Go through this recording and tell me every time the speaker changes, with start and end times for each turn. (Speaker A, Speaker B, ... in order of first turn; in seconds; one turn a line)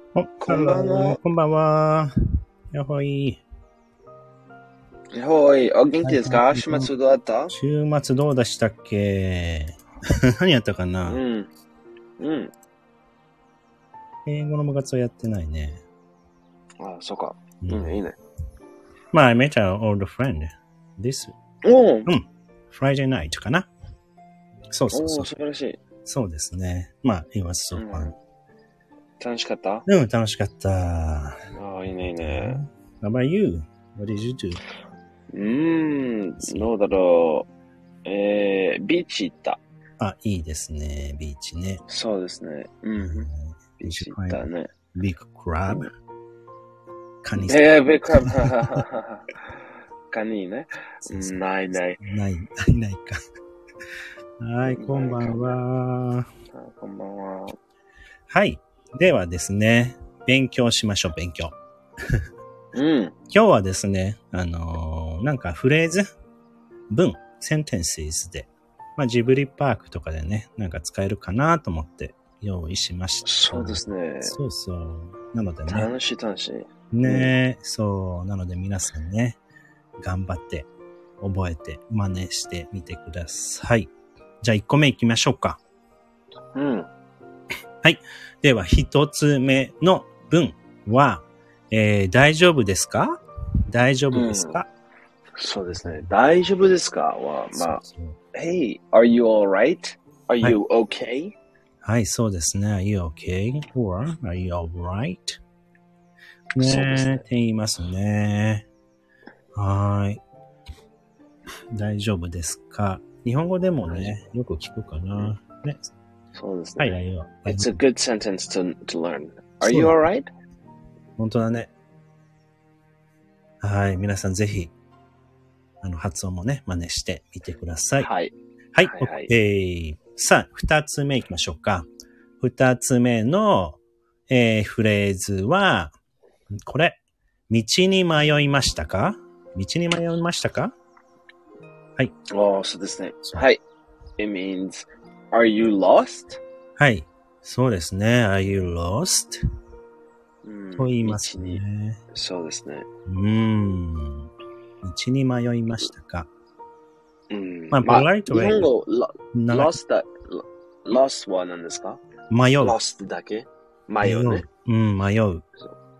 Speaker A: 0.1-2.1
Speaker B: 0.4-1.2
Speaker A: 2.7-3.4
Speaker B: 5.1-7.5
Speaker A: 6.0-6.9
Speaker A: 7.5-9.8
Speaker A: 10.4-11.2
Speaker B: 11.1-11.5
Speaker B: 12.2-12.5
Speaker A: 14.3-15.8
Speaker B: 16.8-18.2
Speaker A: 17.6-18.0
Speaker A: 19.1-21.4
Speaker B: 21.6-22.1
Speaker A: 22.1-23.7
Speaker A: 24.7-25.3
Speaker B: 24.9-25.8
Speaker A: 26.1-28.1
Speaker B: 27.7-28.1
Speaker B: 29.2-29.9
Speaker A: 29.9-31.4
Speaker B: 31.6-32.6
Speaker A: 32.2-34.6
Speaker B: 35.3-37.5
Speaker A: 36.4-36.7
Speaker B: 38.0-39.6
Speaker A: 40.0-41.8
Speaker B: 41.9-43.3
Speaker A: 43.0-44.4
Speaker B: 43.8-44.7
Speaker A: 44.9-45.9
Speaker A: 47.2-47.6
Speaker B: 47.4-49.4
Speaker B: 50.1-52.0
Speaker A: 51.1-51.4
Speaker A: 52.0-53.2
Speaker A: 54.4-56.3
Speaker B: 54.6-55.6
Speaker B: 56.5-57.6
Speaker A: 58.3-61.6
Speaker B: 62.7-63.1
Speaker A: 63.3-66.1
Speaker A: 66.9-75.9
Speaker B: 73.2-74.4
Speaker B: 75.7-77.3
Speaker A: 76.9-79.4
Speaker A: 80.0-80.7
Speaker A: 81.2-83.9
Speaker A: 84.4-85.6
Speaker B: 86.5-86.9
Speaker A: 87.8-94.7
Speaker B: 94.1-94.6
Speaker B: 95.4-97.8
Speaker A: 95.7-96.1
Speaker A: 97.5-98.2
Speaker B: 98.3-101.3
Speaker A: 101.8-105.4
Speaker A: 106.6-108.7
Speaker B: 106.6-107.2
Speaker A: 109.5-110.2
Speaker A: 111.7-115.9
Speaker B: 113.8-114.2
Speaker B: 116.3-120.3
Speaker A: 116.8-117.8
Speaker A: 119.6-120.0
Speaker A: 121.2-121.7
Speaker A: 123.6-124.7
Speaker A: 125.8-128.1
Speaker B: 128.0-129.3
Speaker A: 128.7-131.9
Speaker A: 132.4-135.9
Speaker A: 136.6-137.0
Speaker A: 137.5-140.7
Speaker B: 142.3-143.6
Speaker B: 144.2-146.4
Speaker A: 146.8-149.4
Speaker B: 150.4-151.6
Speaker A: 150.8-152.0
Speaker B: 152.1-152.9
Speaker A: 153.1-154.3
Speaker A: 154.8-156.3
Speaker B: 157.3-162.0
Speaker A: 157.7-158.7
Speaker A: 159.3-159.8
Speaker A: 162.3-162.8
Speaker B: 162.6-164.4
Speaker A: 164.0-165.5